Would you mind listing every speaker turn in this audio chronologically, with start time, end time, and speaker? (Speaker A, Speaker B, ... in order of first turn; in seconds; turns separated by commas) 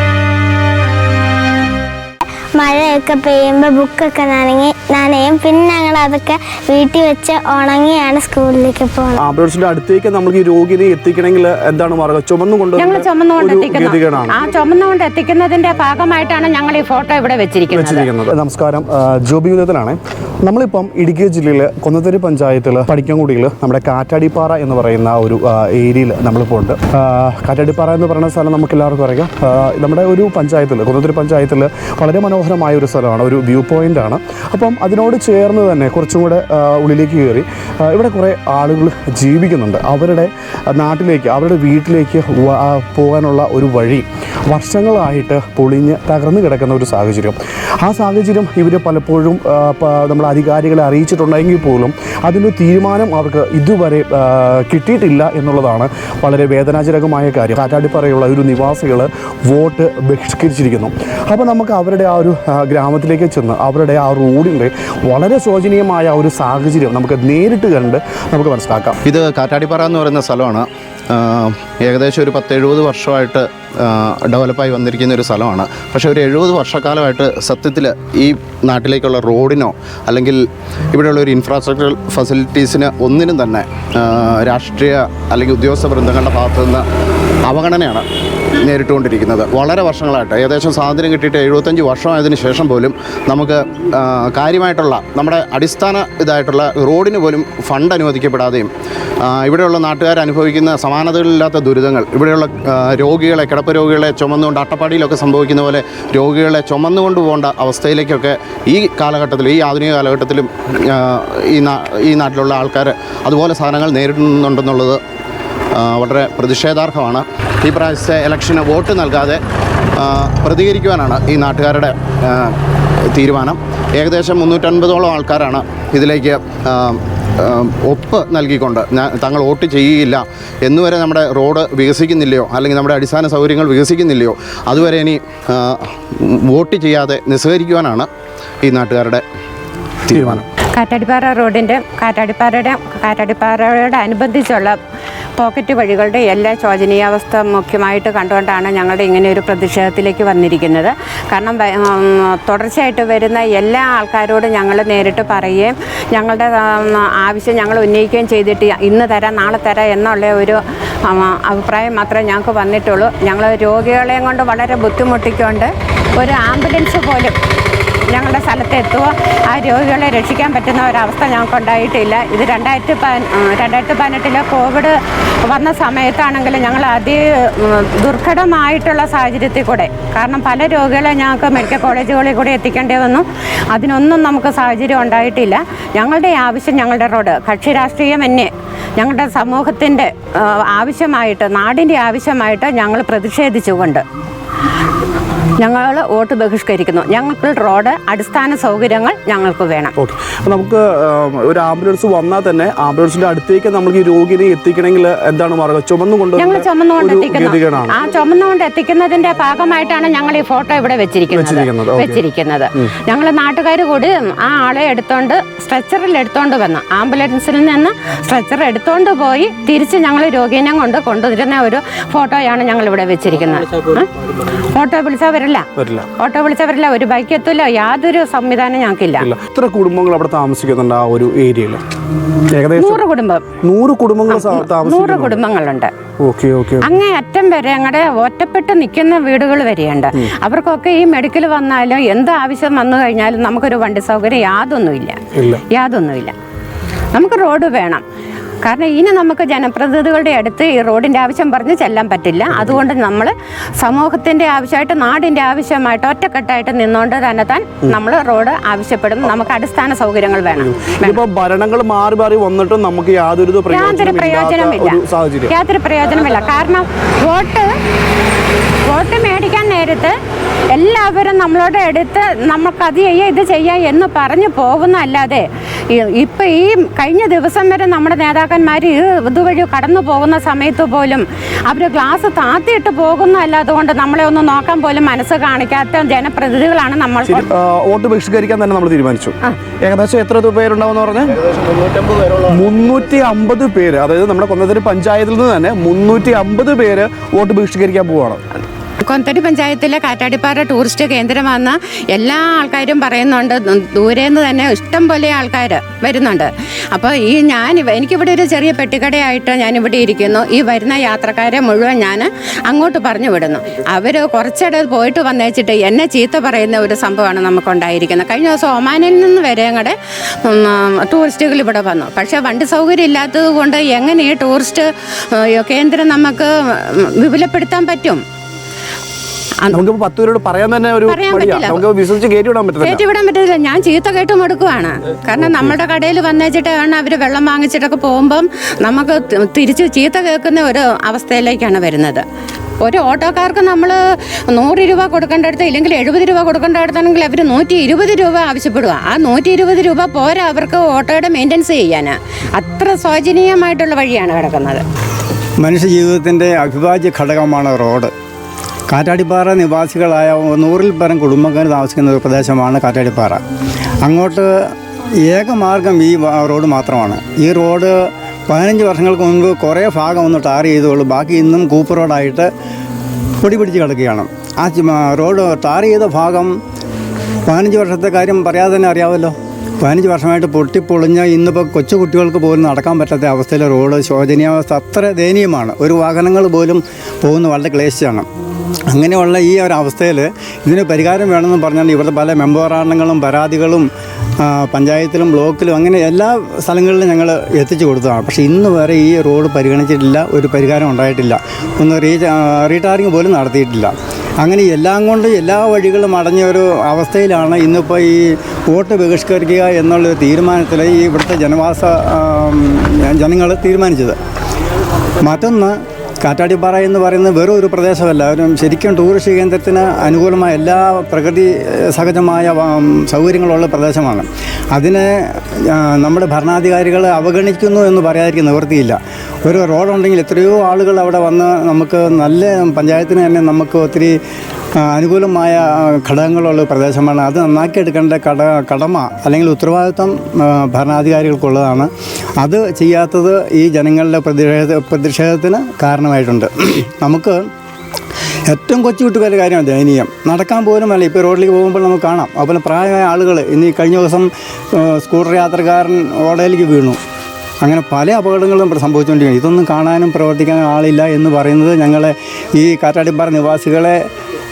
Speaker A: 2.6-9.2, Speaker B: 9.2-14.4, Speaker C: 12.8-18.1, Speaker B: 17.7-69.0, Speaker D: 69.0-80.4, Speaker D: 80.9-86.8, Speaker D: 87.5-88.0, Speaker D: 88.6-98.7, Speaker D: 99.2-115.0, Speaker D: 115.7-119.4, Speaker D: 120.0-122.5, Speaker D: 123.1-138.1, Speaker D: 138.6-139.2, Speaker D: 140.1-140.4, Speaker B: 140.1-140.4, Speaker C: 140.8-144.8, Speaker C: 145.4-167.4, Speaker C: 168.1-194.0, Speaker C: 195.6-199.9, Speaker B: 200.0-208.0, Speaker C: 206.4-225.7, Speaker B: 211.3-212.2, Speaker B: 225.8-226.1, Speaker C: 226.2-229.3, Speaker B: 229.2-231.8, Speaker B: 232.5-233.0, Speaker C: 232.8-233.4, Speaker B: 233.6-235.4, Speaker C: 234.3-235.9, Speaker B: 236.2-236.9, Speaker C: 236.8-245.2, Speaker B: 245.3-245.6, Speaker C: 245.7-246.3, Speaker C: 247.1-248.0, Speaker C: 248.6-261.2, Speaker B: 252.5-252.8, Speaker B: 260.8-265.5, Speaker C: 263.7-267.7, Speaker C: 268.9-270.1, Speaker C: 270.7-287.5, Speaker B: 287.2-298.4, Speaker C: 299.0-328.2, Speaker B: 329.7-333.0, Speaker C: 331.1-331.9, Speaker C: 332.8-342.2, Speaker B: 335.4-335.8, Speaker C: 342.8-344.0, Speaker C: 344.5-354.8, Speaker E: 355.6-358.1, Speaker E: 358.9-363.4, Speaker E: 364.0-364.5, Speaker E: 365.3-367.9, Speaker E: 368.5-372.5, Speaker E: 373.4-376.5, Speaker E: 377.5-388.3, Speaker E: 388.9-393.9, Speaker E: 394.5-414.2, Speaker E: 415.2-434.1, Speaker E: 434.9-441.9, Speaker E: 442.4-447.4, Speaker E: 448.5-454.3, Speaker E: 454.8-457.0, Speaker E: 457.6-464.0